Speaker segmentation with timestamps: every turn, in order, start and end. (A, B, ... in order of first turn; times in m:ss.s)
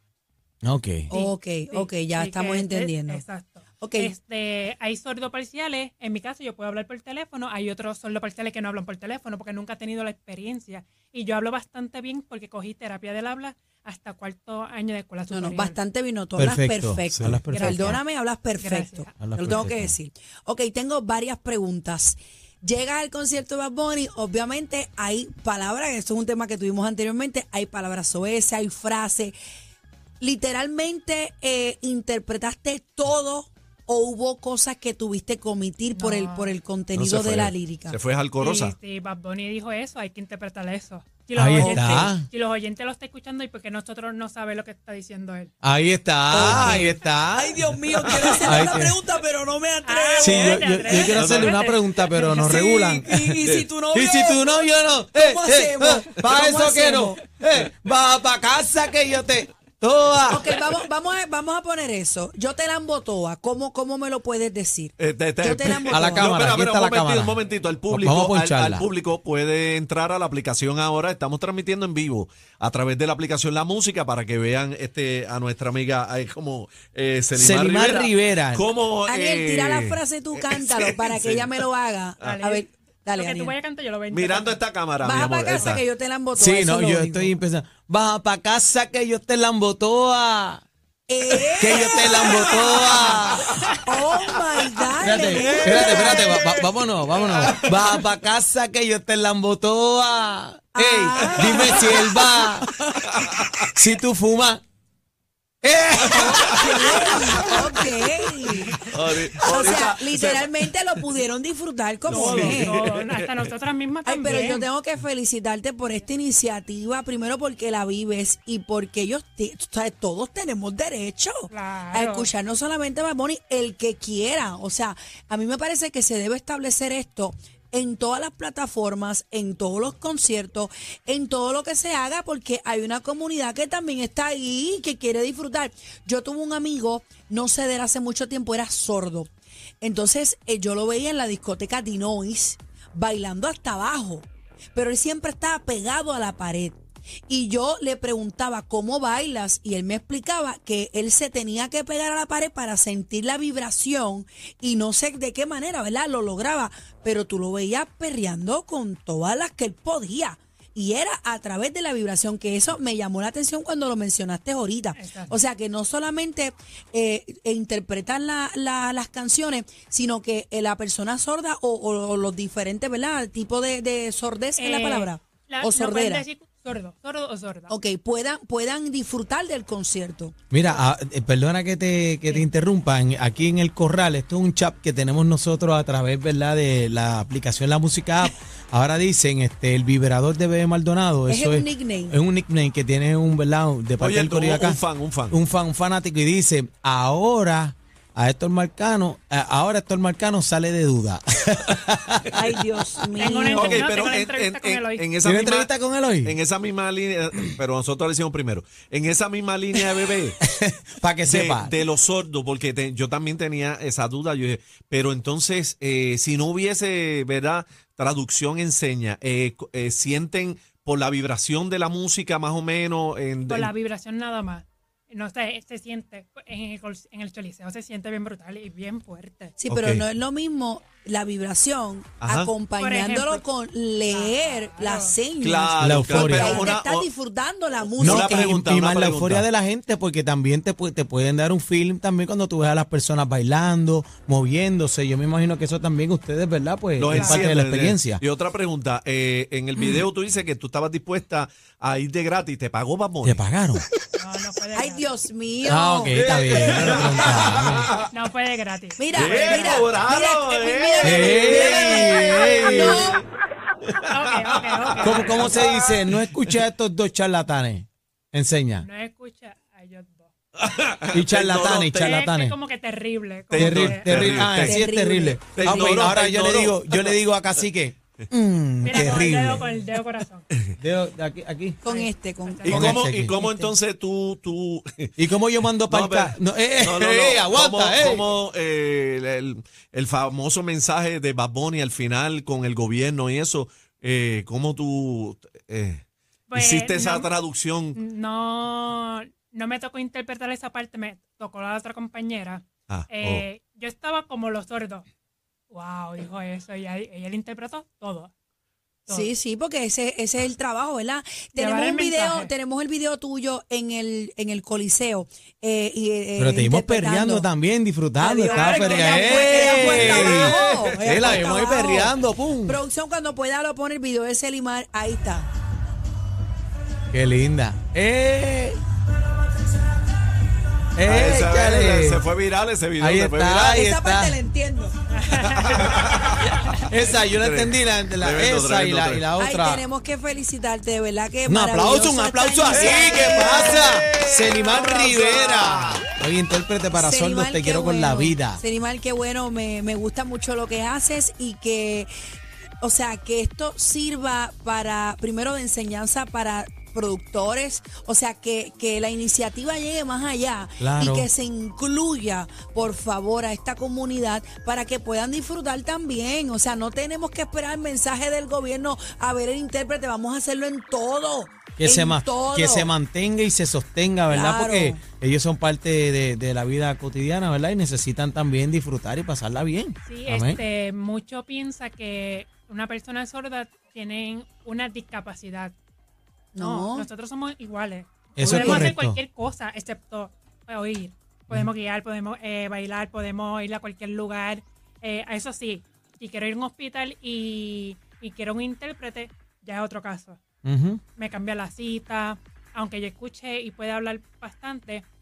0:00.6-0:01.1 A
0:01.1-0:03.2 B
0:01.1-0:15.8 C
0:03.8-0:04.1 B
0:15.3-0:29.4 B
0:16.4-0:18.0 A
0:17.5-0:18.0 C
0:18.6-0:19.1 C
0:19.2-0:20.0 A
0:30.2-0:38.0 B
0:35.9-0:36.6 C
0:37.0-0:38.7 D
0:38.4-0:45.5 C
0:41.4-0:42.3 A
0:41.6-0:42.1 B
0:45.6-0:49.0 A
0:46.3-0:50.9 B
0:46.3-0:46.8 D
0:48.1-0:48.5 D
0:49.8-0:52.8 C
0:50.2-1:00.5 A
0:50.9-0:51.7 D
0:52.2-0:57.2 B
0:53.4-0:53.7 D
1:00.3-1:06.3 B
1:05.0-1:21.5 D
1:05.7-1:07.4 A
1:07.9-1:08.9 A
1:17.4-1:18.6 A
1:19.1-1:23.5 B
1:22.2-1:24.6 C
1:24.1-1:25.8 D
1:25.0-1:27.3 B
1:25.2-1:25.8 C
1:26.4-1:30.6 A
1:31.1-1:33.3 B
1:31.6-1:33.6 A
1:32.1-1:33.8 D
1:33.8-1:36.4 B
1:35.0-1:42.7 A
1:35.2-1:38.0 D
1:40.8-1:42.5 B
1:41.2-1:43.7 D
1:43.7-1:44.6 A
1:45.6-1:47.6 A
1:46.0-1:47.6 D
1:46.4-1:48.8 B
1:48.7-1:50.6 D
1:49.4-1:52.8 B
1:52.1-1:53.5 D
1:52.1-1:54.7 C
1:54.0-2:19.3 B
2:01.5-2:02.3 C
2:19.8-2:56.2 B
2:45.0-2:45.4 C
2:54.6-2:57.7 C
2:57.7-3:00.3 B
3:00.5-3:22.3 A
3:11.3-3:12.2 B
3:14.0-3:15.4 D
3:22.3-3:23.9 B
3:23.2-3:25.1 C
3:23.5-3:25.7 D
3:25.2-3:26.4 A
3:26.2-3:30.4 D
3:30.4-3:31.7 A
3:31.3-3:43.7 D
3:43.5-3:49.6 C
3:49.6-3:58.6 B
3:49.7-3:50.0 D
3:52.2-3:52.5 D
3:52.8-3:53.4 C
3:54.1-3:55.2 C
3:55.4-3:57.1 D
3:55.8-3:56.7 A
3:58.0-3:59.5 D
3:58.0-4:08.2 A
4:07.0-4:13.4 D
4:07.1-4:07.5 C
4:13.2-4:13.8 A
4:14.2-4:15.1 C
4:14.8-4:17.1 B
4:15.6-4:17.9 A
4:16.1-4:18.1 D
4:18.1-4:19.9 C
4:19.0-4:23.2 B
4:19.1-4:23.2 D
4:21.0-4:23.2 A
4:24.1-4:25.6 C
4:24.4-4:26.6 D
4:25.0-4:28.9 A
4:28.8-4:30.3 C
4:30.6-4:32.3 D
4:31.1-4:32.6 A
4:32.0-4:34.3 C
4:33.5-4:34.9 D
4:33.6-4:39.7 A
4:34.6-4:35.9 B
4:35.5-4:37.2 D
4:38.8-4:40.5 C
4:38.9-4:39.2 D
4:40.8-4:41.8 A
4:41.8-4:43.8 B
4:41.9-4:42.9 C
4:42.6-4:45.2 D
4:42.7-4:43.4 A
4:45.2-4:48.3 A
4:45.8-4:56.0 D
4:56.5-4:57.3 C
4:56.5-4:58.0 D
4:58.0-5:05.0 C
5:02.9-5:03.4 D
5:05.7-5:08.3 C
5:09.1-5:09.3 C
5:09.1-5:17.5 B
5:11.6-5:12.5 C
5:16.4-5:22.8 A
5:18.2-5:25.5 B
5:18.4-5:19.7 C
5:19.5-5:21.6 D
5:27.1-5:28.8 A
5:31.0-5:32.2 A
5:31.0-5:33.9 D
5:33.0-5:34.4 A
5:33.7-5:34.9 B
5:35.1-5:36.0 C
5:35.5-5:39.3 D
5:36.8-5:39.8 A
5:39.4-5:44.1 B
5:41.5-5:48.6 A
5:42.7-5:46.0 D
5:46.9-5:52.1 B
5:52.8-6:12.9 B
6:00.8-6:01.3 A
6:11.8-6:20.6 A
6:14.3-6:15.0 B
6:20.0-6:25.8 C
6:26.6-6:27.1 B
6:26.6-6:40.4 C
6:28.4-6:29.2 A
6:28.4-6:29.0 B
6:40.6-6:41.0 A
6:41.2-6:45.0 C